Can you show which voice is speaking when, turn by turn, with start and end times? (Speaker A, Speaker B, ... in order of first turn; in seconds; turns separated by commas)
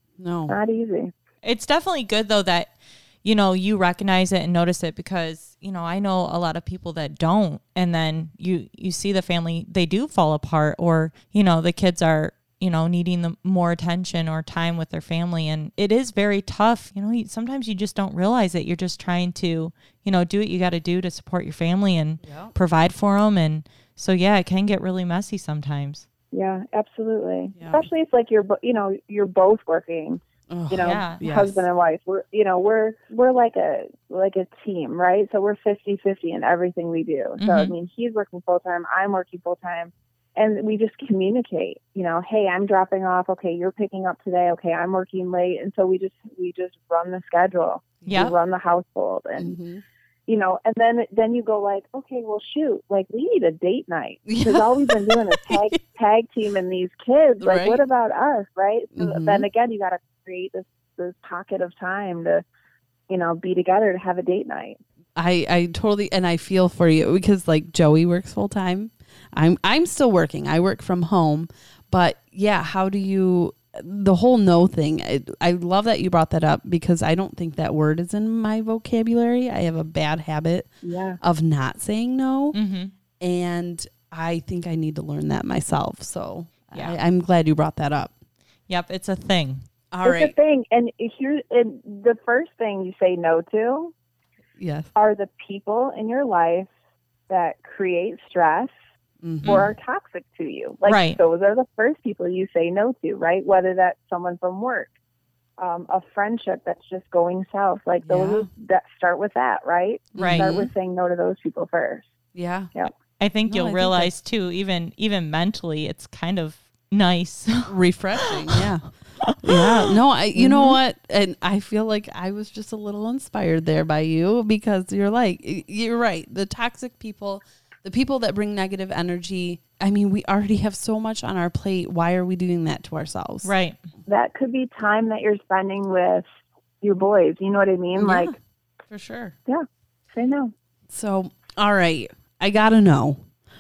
Speaker A: 0.2-0.6, Speaker B: 0.5-1.1, Speaker C: 1.4-2.7, Speaker C: 3.2-26.1, Speaker A: 22.2-22.5, Speaker B: 26.3-49.6, Speaker A: 27.6-27.9, Speaker A: 30.5-31.6, Speaker C: 30.8-31.5, Speaker C: 37.4-37.7, Speaker C: 48.1-48.3, Speaker A: 49.4-49.8, Speaker B: 50.3-62.4, Speaker A: 54.3-55.7, Speaker A: 57.4-57.8, Speaker A: 59.0-59.5, Speaker B: 63.1-64.8, Speaker A: 65.2-82.6, Speaker B: 80.8-81.2, Speaker C: 82.5-82.9, Speaker A: 83.2-88.1, Speaker C: 88.7-89.7, Speaker A: 89.9-90.3, Speaker B: 90.0-93.9, Speaker A: 94.6-94.9, Speaker B: 95.0-96.7, Speaker B: 97.3-98.7, Speaker A: 99.2-99.7, Speaker C: 99.4-99.7, Speaker B: 99.4-104.9, Speaker C: 100.9-101.2, Speaker B: 105.6-112.1, Speaker A: 108.0-108.5, Speaker C: 110.2-110.5, Speaker A: 110.2-110.7, Speaker A: 112.3-112.7, Speaker C: 113.1-117.7, Speaker A: 113.5-114.1, Speaker A: 117.7-133.5, Speaker C: 118.2-118.6, Speaker C: 119.3-120.0, Speaker C: 133.4-133.8, Speaker B: 134.1-136.2, Speaker B: 136.8-138.4, Speaker A: 137.9-138.3, Speaker A: 138.9-139.4, Speaker B: 139.5-140.5, Speaker A: 140.9-143.2